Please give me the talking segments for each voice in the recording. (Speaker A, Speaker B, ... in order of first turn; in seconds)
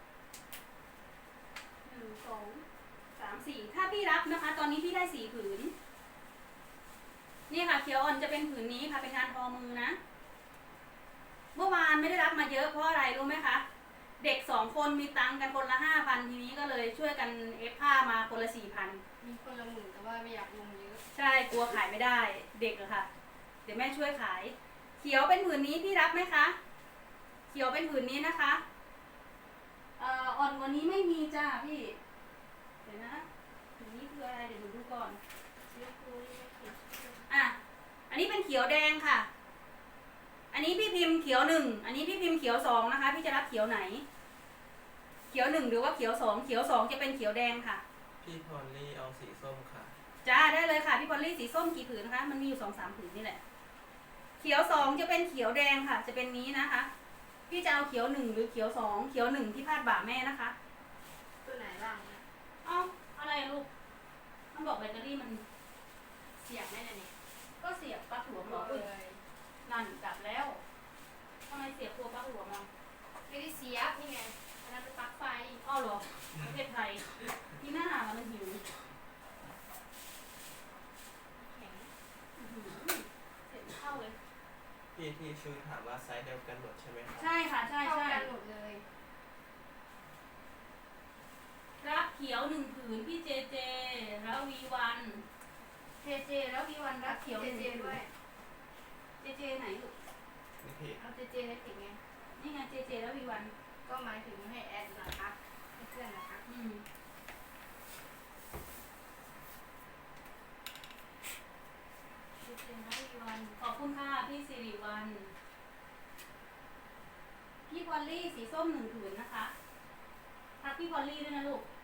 Speaker A: 1.8-5.7, 7.5-10.0, 11.6-13.6, 14.2-19.0, 21.1-23.1, 23.6-26.6, 27.5-28.6, 30.0-32.0, 32.8-33.3, 33.8-35.2, 37.3-37.6, 38.1-39.3, 40.5-44.0, 45.3-47.8, 50.2-53.4, 54.4-56.9, 57.5-60.5, 62.6-63.7, 64.5-65.4, 67.6-68.9, 69.7-70.6, 71.5-72.7, 75.6-77.1, 77.6-78.6, 82.4-84.2, 87.2-88.3, 91.8-95.2, 96.0-98.0, 99.2-99.9, 102.4-103.5, 106.5-106.8, 112.3-115.3, 117.7-119.5, 120.6-121.7
Speaker B: 19.2-21.0, 35.7-37.3, 61.4-62.2, 66.4-67.1, 68.4-69.2, 73.3-75.6, 81.4-81.9, 87.8-88.9, 97.0-98.1, 101.0-102.0, 103.8-106.5
Speaker C: 48.2-50.0, 84.9-87.3, 100.6-101.0